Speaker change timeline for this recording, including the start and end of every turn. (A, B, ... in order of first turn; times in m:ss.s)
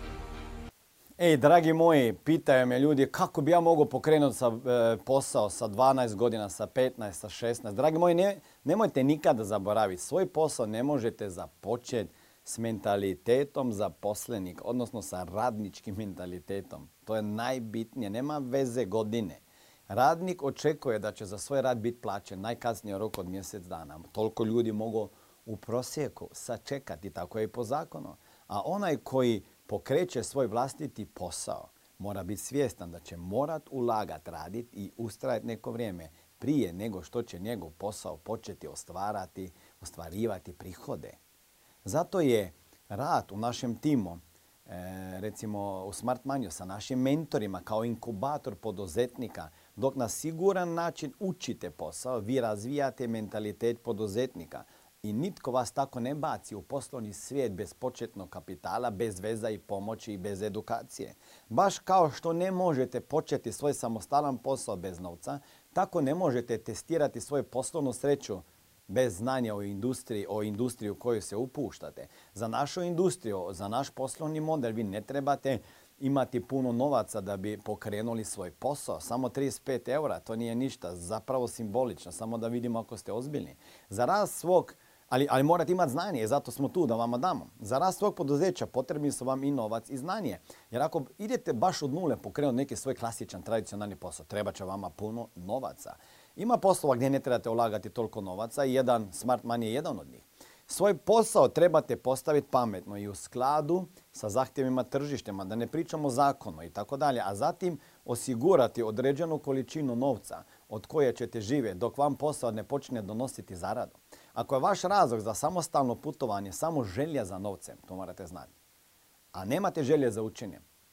0:01.2-0:41.2 A
0:41.8-1:58.5 A
1:59.3-2:00.6 A